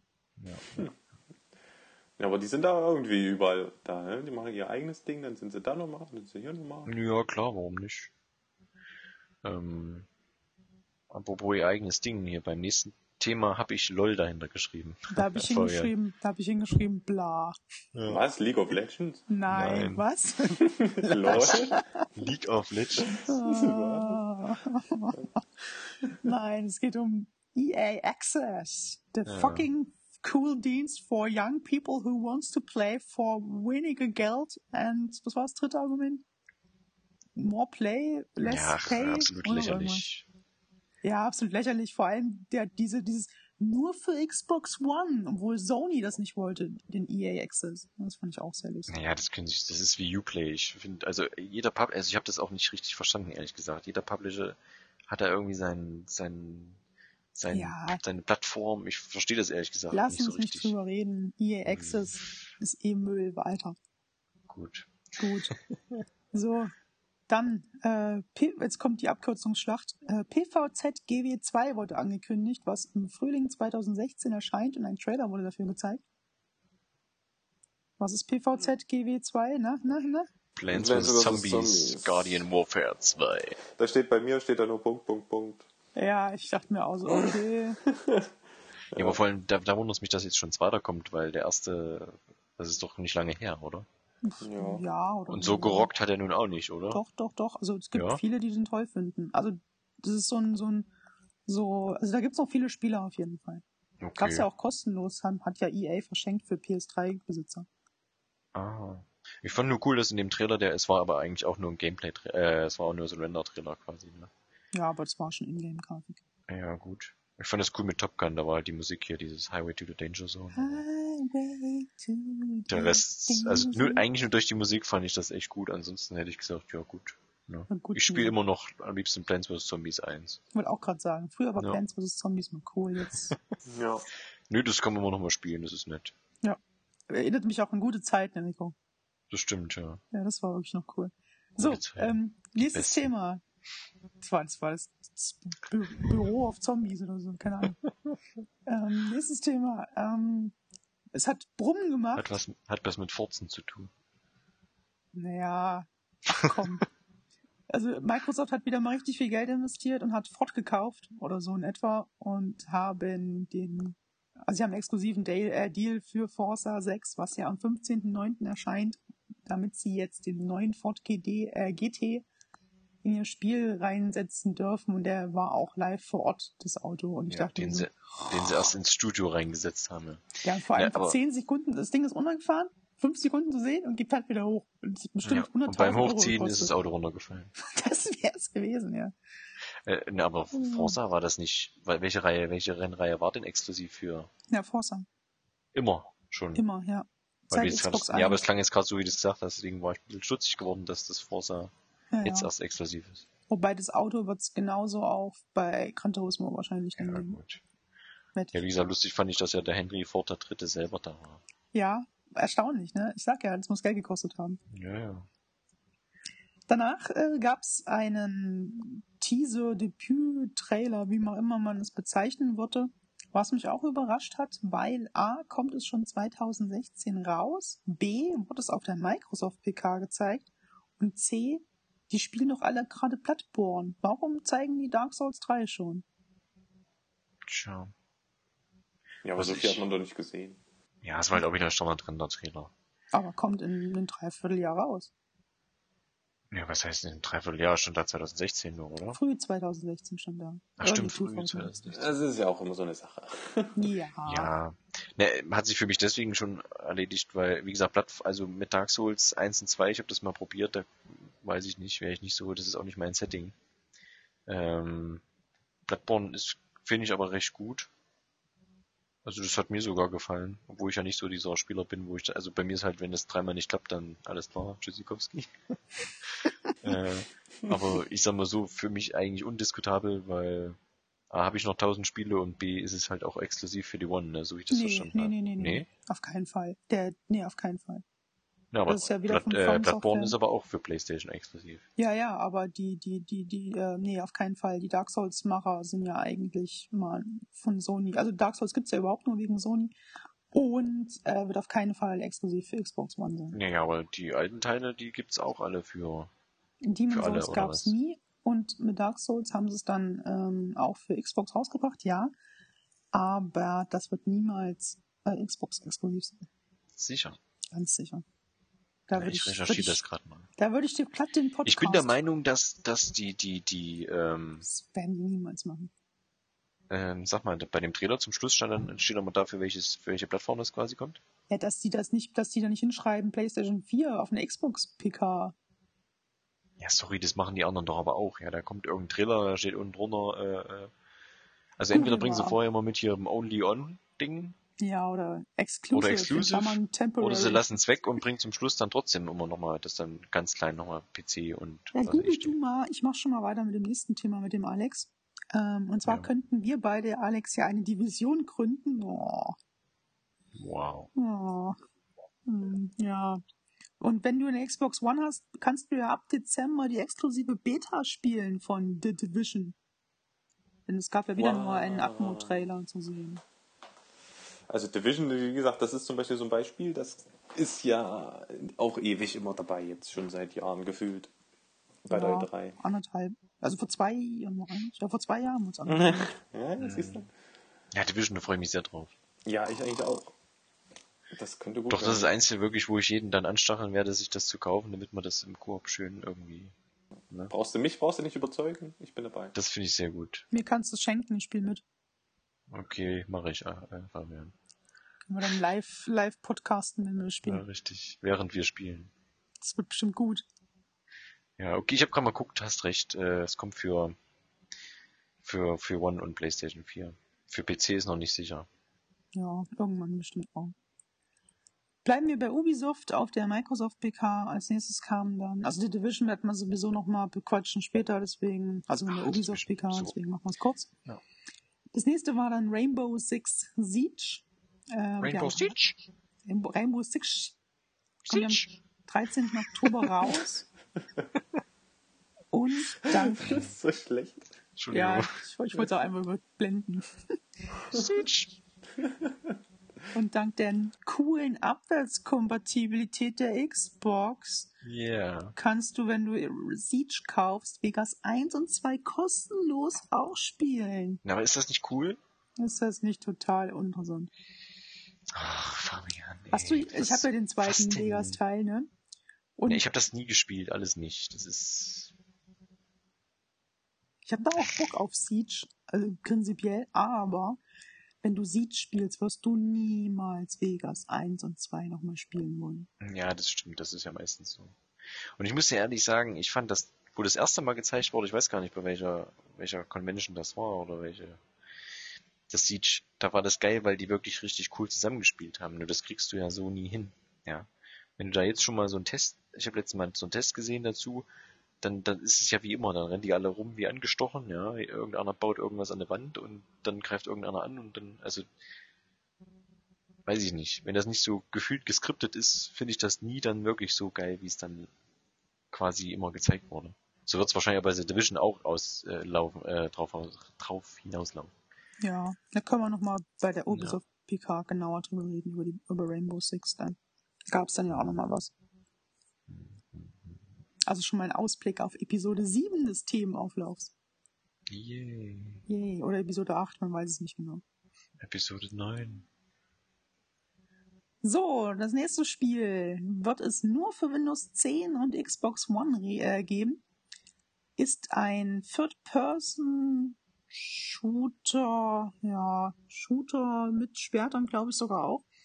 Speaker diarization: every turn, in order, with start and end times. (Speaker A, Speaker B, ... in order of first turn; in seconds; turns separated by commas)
Speaker A: 0.4-0.8, Speaker B: 2.2-6.9, Speaker A: 6.9-8.1, Speaker A: 9.4-10.1, Speaker A: 11.1-15.9, Speaker C: 15.1-17.6, Speaker A: 17.9-18.2, Speaker B: 18.1-19.3, Speaker C: 19.3-22.1, Speaker A: 19.5-20.1, Speaker B: 20.6-21.8, Speaker A: 21.3-23.3, Speaker C: 23.1-25.4, Speaker B: 23.1-24.2, Speaker C: 26.1-36.2, Speaker A: 29.2-29.7, Speaker C: 37.4-40.1, Speaker A: 38.4-40.3, Speaker C: 41.0-48.9, Speaker A: 48.9-56.8, Speaker A: 57.4-60.8, Speaker C: 57.5-58.0, Speaker C: 59.9-63.8, Speaker A: 61.6-62.3, Speaker A: 64.5-65.5, Speaker C: 65.2-65.5, Speaker C: 66.3-66.7, Speaker C: 67.3-76.0, Speaker C: 78.0-80.3, Speaker A: 80.6-83.6, Speaker B: 80.7-82.4, Speaker B: 83.7-85.7, Speaker C: 86.0-87.8, Speaker B: 87.1-88.3, Speaker B: 88.9-89.2, Speaker A: 89.0-93.9, Speaker C: 94.2-95.9, Speaker B: 94.4-94.8, Speaker A: 95.3-97.0, Speaker C: 96.9-100.9, Speaker A: 97.9-98.2, Speaker C: 101.5-103.6, Speaker A: 104.0-104.5, Speaker C: 104.2-107.7, Speaker A: 108.5-114.3, Speaker C: 114.7-116.2, Speaker A: 116.5-120.8, Speaker C: 120.5-124.0, Speaker A: 122.7-130.4, Speaker C: 127.7-128.4, Speaker C: 130.5-133.4, Speaker B: 133.7-134.1, Speaker A: 134.5-136.1, Speaker C: 136.4-138.8, Speaker A: 139.3-140.0, Speaker C: 140.1-143.4, Speaker A: 141.6-143.1, Speaker C: 144.2-147.8, Speaker C: 148.7-150.6, Speaker C: 151.1-152.3, Speaker A: 152.2-153.9, Speaker C: 155.1-156.9, Speaker C: 157.7-172.3, Speaker C: 173.0-178.6, Speaker A: 177.3-181.2, Speaker C: 180.4-186.7, Speaker A: 185.2-187.5, Speaker C: 187.6-189.1, Speaker A: 189.8-194.3, Speaker C: 190.5-191.0, Speaker C: 194.5-195.1, Speaker A: 195.7-196.7, Speaker C: 196.6-198.4, Speaker A: 197.5-201.7, Speaker C: 202.1-202.5, Speaker A: 202.2-203.3, Speaker C: 203.5-207.4, Speaker A: 207.0-207.6, Speaker C: 208.3-208.6, Speaker A: 208.5-211.4, Speaker C: 211.7-214.6, Speaker A: 214.7-215.3, Speaker C: 216.7-230.4, Speaker C: 231.0-236.1, Speaker A: 237.4-237.9, Speaker B: 239.2-240.6, Speaker A: 239.4-239.8, Speaker A: 241.0-242.7, Speaker C: 243.1-245.1, Speaker A: 246.5-249.2, Speaker C: 249.1-251.8, Speaker A: 250.8-252.2, Speaker B: 251.9-253.9, Speaker C: 253.8-254.5, Speaker A: 254.2-263.6, Speaker A: 264.5-265.2, Speaker A: 265.9-267.9, Speaker A: 269.2-280.8, Speaker A: 281.3-285.9, Speaker C: 284.7-288.0, Speaker A: 288.7-291.9, Speaker C: 288.9-290.4, Speaker C: 292.0-299.9, Speaker C: 300.5-303.6, Speaker A: 303.5-306.3, Speaker C: 306.8-312.3, Speaker A: 307.1-308.0, Speaker C: 313.1-316.5, Speaker A: 316.9-317.4, Speaker C: 317.7-318.2, Speaker C: 319.1-320.0, Speaker A: 319.1-320.5, Speaker C: 320.6-322.2, Speaker A: 321.6-324.7, Speaker C: 324.6-325.9, Speaker A: 326.9-331.2, Speaker C: 331.5-335.6, Speaker A: 336.8-340.9, Speaker A: 341.8-344.6, Speaker C: 341.9-342.6, Speaker C: 344.8-347.6, Speaker A: 345.9-352.6, Speaker C: 351.9-359.6, Speaker A: 360.5-361.1, Speaker C: 361.1-361.8, Speaker C: 362.5-363.4, Speaker C: 364.0-369.8, Speaker C: 370.9-373.4, Speaker B: 371.4-372.7, Speaker B: 374.7-381.3, Speaker B: 382.1-382.8, Speaker C: 382.1-386.3, Speaker B: 385.9-387.3, Speaker A: 386.8-387.2, Speaker A: 387.9-389.1, Speaker B: 389.4-390.3, Speaker B: 391.3-392.3, Speaker A: 391.9-396.7, Speaker B: 397.5-399.6, Speaker A: 399.5-400.5, Speaker C: 400.5-401.8, Speaker A: 402.7-404.6, Speaker C: 405.3-407.6, Speaker A: 407.4-409.1, Speaker C: 409.6-410.4, Speaker A: 411.6-414.1, Speaker A: 415.4-418.7, Speaker C: 419.3-420.7, Speaker C: 422.1-430.9, Speaker A: 429.1-430.1, Speaker C: 431.9-435.8, Speaker A: 435.2-436.0, Speaker C: 436.5-437.6, Speaker A: 438.2-438.7, Speaker C: 438.3-440.7, Speaker C: 442.5-443.5, Speaker B: 443.0-444.5, Speaker A: 443.4-443.7, Speaker A: 444.8-445.3, Speaker C: 444.9-447.3, Speaker A: 447.9-448.6, Speaker B: 449.0-449.6, Speaker C: 450.1-454.7, Speaker A: 454.8-455.6, Speaker C: 455.6-461.2, Speaker A: 461.2-462.2, Speaker C: 462.6-464.3, Speaker A: 465.3-468.4, Speaker C: 466.5-468.9, Speaker C: 469.6-469.9, Speaker A: 469.7-472.1, Speaker C: 474.3-477.6, Speaker C: 478.2-482.9, Speaker A: 483.0-491.4, Speaker A: 492.5-501.3, Speaker A: 501.8-508.5, Speaker A: 510.3-514.9, Speaker A: 515.7-521.5, Speaker C: 522.0-527.0, Speaker A: 523.7-524.0, Speaker C: 527.5-528.5, Speaker A: 529.5-530.4, Speaker C: 530.9-533.9, Speaker A: 534.7-535.6, Speaker C: 535.7-537.6, Speaker A: 538.2-539.3, Speaker C: 541.2-546.8, Speaker C: 547.8-555.2